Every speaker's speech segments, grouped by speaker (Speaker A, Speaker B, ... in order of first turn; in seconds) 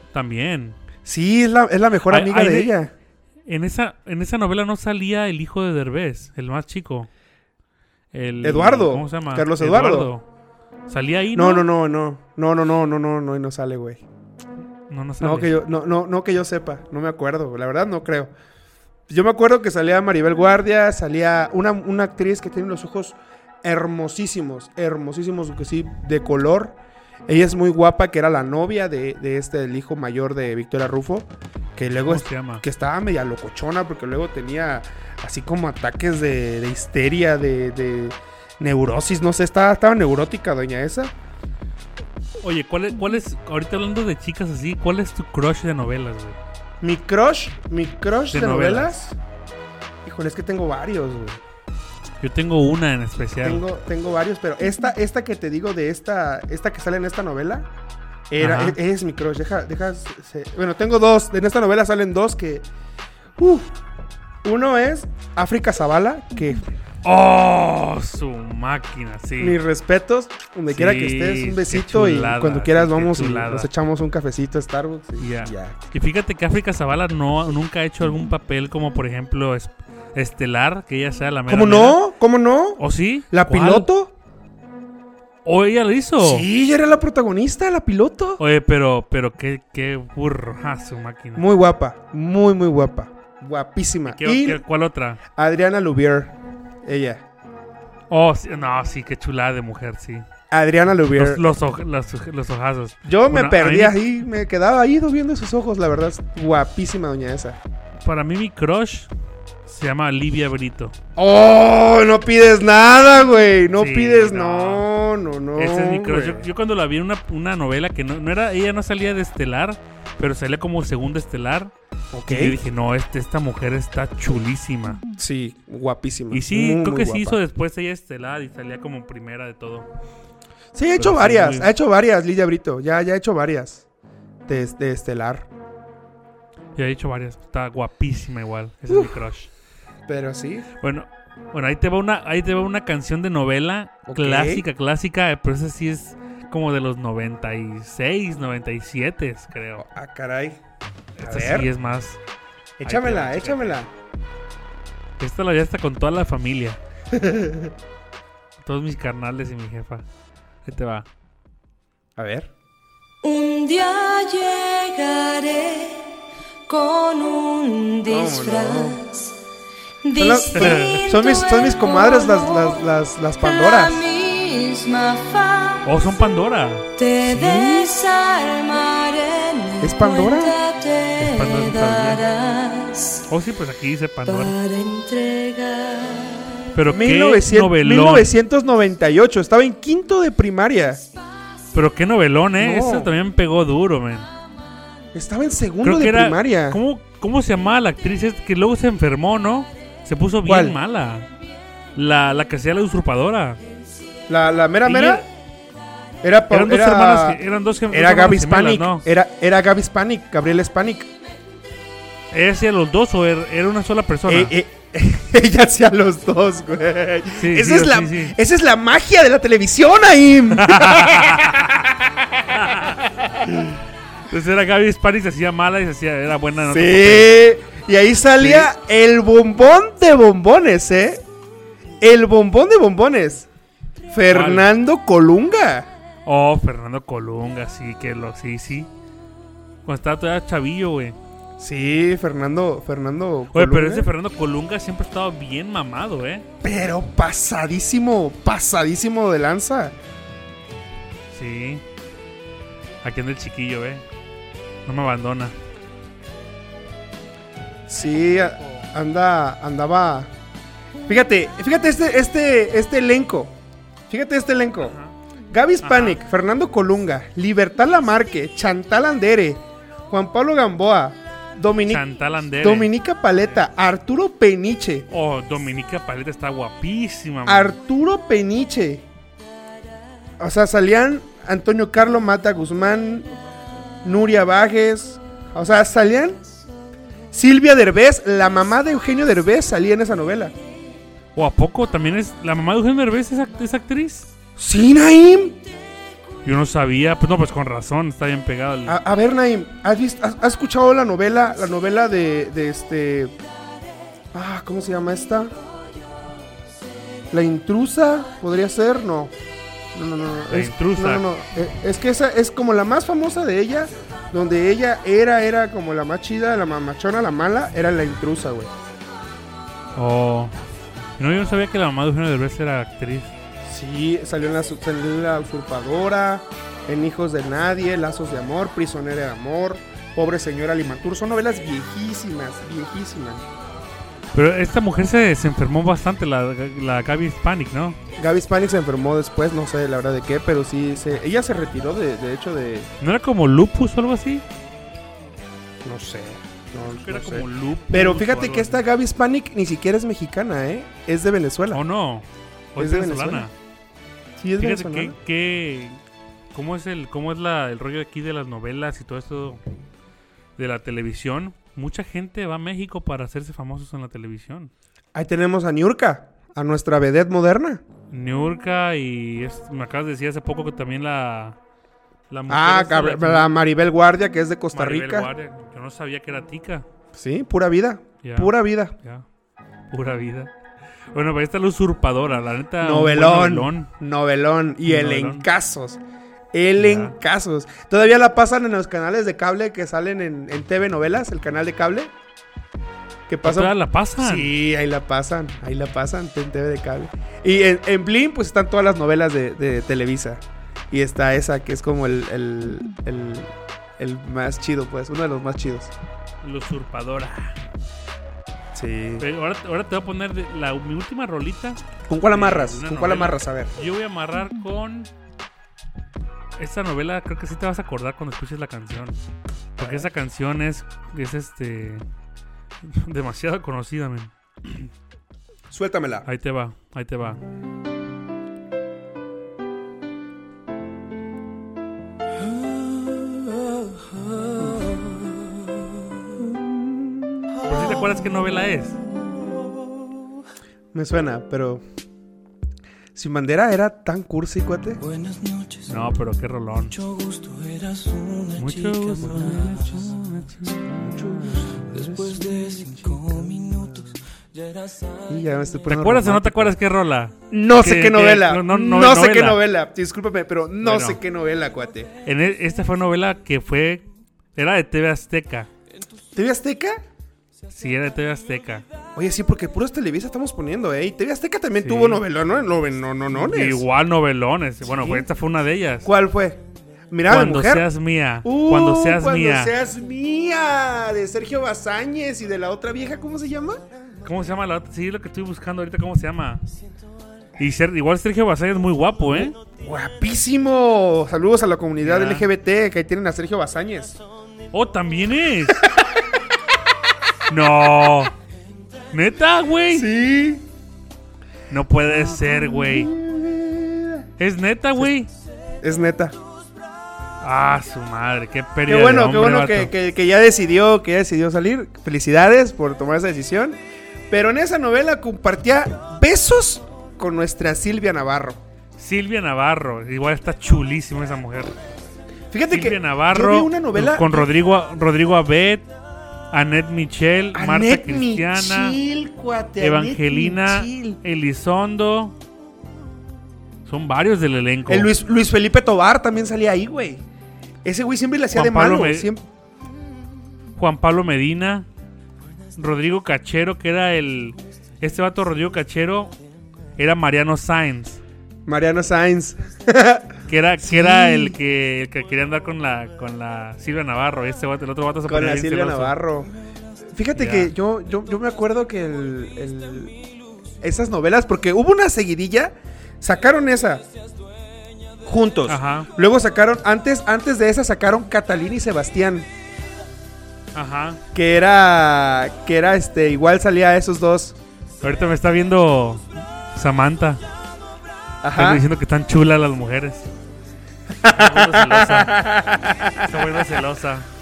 Speaker A: 0.1-0.8, 2.1-2.7, 3.5-7.1, 8.1-10.2, 10.9-11.7, 14.9-15.5, 32.0-32.6, 42.4-46.4, 48.3-49.0, 52.2-53.6, 58.4-58.8, 67.0-69.6, 70.7-73.7, 75.2-82.0, 82.8-83.9, 85.4-86.5, 88.4-91.4, 94.1-95.2, 98.1-100.2, 101.2-104.0, 108.0-109.1, 109.7-110.9, 113.7-114.9, 115.6-121.7, 122.3-125.0, 126.3-129.9, 131.0-131.7, 136.8-139.5, 140.8-149.8, 151.2-152.2, 152.8-153.8, 155.2-156.8, 158.6-160.1, 160.6-161.1, 170.5-171.0, 175.8-176.9, 181.2-182.2, 183.3-184.6, 186.7-188.3, 191.7-194.3, 195.8-201.3, 201.9-203.6, 204.8-205.2, 206.5-209.1, 212.3-214.5, 217.3-218.3, 220.5-221.7, 222.5-223.1, 224.3-227.3, 228.4-228.7, 234.3-234.7, 236.2-238.9, 239.8-241.2, 243.5-246.4, 251.3-251.8, 253.0-254.0, 254.8-255.5, 258.4-258.9, 264.8-265.1, 265.8-266.2, 271.9-272.9, 275.1-277.8, 291.3-294.3, 296.4-299.0, 310.5-311.3, 319.9-320.5, 321.2-323.3, 334.3-338.0, 343.0-344.4, 347.0-348.8, 351.7-353.5, 354.6-356.0, 356.5-359.6, 360.6-364.7, 368.1-371.6, 372.3-373.5, 374.7-376.8, 378.2-379.2, 379.9-380.5, 381.1-383.9, 384.8-385.5, 386.8-387.1, 393.4-394.5, 406.4-407.6, 409.2-411.8, 412.3-415.1, 416.6-419.2, 419.8-422.0, 422.8-424.9, 426.2-427.4, 437.6-439.0, 445.9-446.9, 448.6-450.8, 455.9-459.6, 460.8-461.2, 462.2-465.7, 467.7-468.8, 471.8-472.2, 473.3-476.1, 477.3-479.7, 484.2-486.6, 487.6-489.6, 492.0-492.5, 494.7-495.8, 497.5-498.3, 499.1-500.1, 501.7-503.1, 504.4-505.3, 507.4-509.9, 519.0-521.8, 522.7-525.9, 526.5-529.0, 529.8-532.4, 533.9-535.1, 538.5-539.3, 540.8-541.9, 542.8-546.3, 547.0-548.2, 550.5-556.1, 557.3-557.7, 565.7-566.1, 570.7-571.2, 575.0-577.4, 578.5-580.3, 581.2-582.4, 583.1-584.3
Speaker B: 1.0-2.9, 8.4-10.1, 11.3-14.0, 15.2-18.3, 19.1-41.1, 46.8-49.1, 50.0-51.4, 53.4-57.7, 58.3-62.7, 63.4-63.8, 64.4-66.6, 69.4-75.8, 81.5-84.1, 86.2-88.4, 91.3-94.6, 95.3-97.2, 100.5-101.5, 103.0-107.6, 111.2-116.5, 122.1-122.6, 125.2-127.4, 130.7-133.8, 134.5-135.5, 138.9-139.2, 140.1-140.7, 144.1-144.6, 149.8-150.6, 151.2-151.7, 152.8-153.9, 157.1-157.7, 162.2-162.5, 168.1-169.0, 170.1-174.0, 179.8-180.6, 186.9-191.0, 192.6-193.1, 195.1-196.8, 200.4-200.8, 204.3-205.2, 206.2-211.1, 214.3-222.4, 223.4-223.8, 226.7-231.2, 232.0-233.5, 234.1-235.9, 241.6-244.1, 246.6-249.9, 257.9-260.3, 261.1-263.5, 264.1-264.9, 265.5-272.1, 272.6-275.1, 277.4-279.1, 280.4-283.3, 284.0-286.4, 287.3-290.5, 294.6-295.6, 298.9-303.3, 304.3-305.5, 307.3-309.3, 309.9-318.7, 323.6-333.4, 338.2-342.9, 345.8-351.8, 352.8-353.5, 354.4-355.1, 365.1-367.8, 372.5-375.3, 377.1-378.9, 382.8-386.0, 386.5-392.1, 393.3-405.9, 408.7-409.2, 412.1-413.7, 419.8-420.1, 425.7-426.3, 436.4-437.5, 440.9-441.8, 443.1-445.0, 450.9-452.4, 455.3-456.7, 457.5-462.1, 466.3-467.0, 469.1-473.8, 474.8-475.3, 476.0-477.9, 478.4-483.8, 489.3-494.2, 495.8-496.1, 499.9-500.6, 502.0-504.2, 505.8-506.4, 508.9-513.8, 514.3-518.6, 522.5-524.5, 527.5-531.2, 534.9-537.2, 537.8-539.5, 548.6-551.6, 555.2-556.5, 557.0-560.1, 560.8-564.0, 565.2-569.5, 571.3-574.5, 578.4-578.8, 581.1-583.7
Speaker C: 163.2-166.0, 166.7-169.1, 170.1-172.7, 173.4-175.8, 177.0-183.2, 184.3-186.4
Speaker D: 445.0-446.0, 446.9-450.2, 450.9-455.4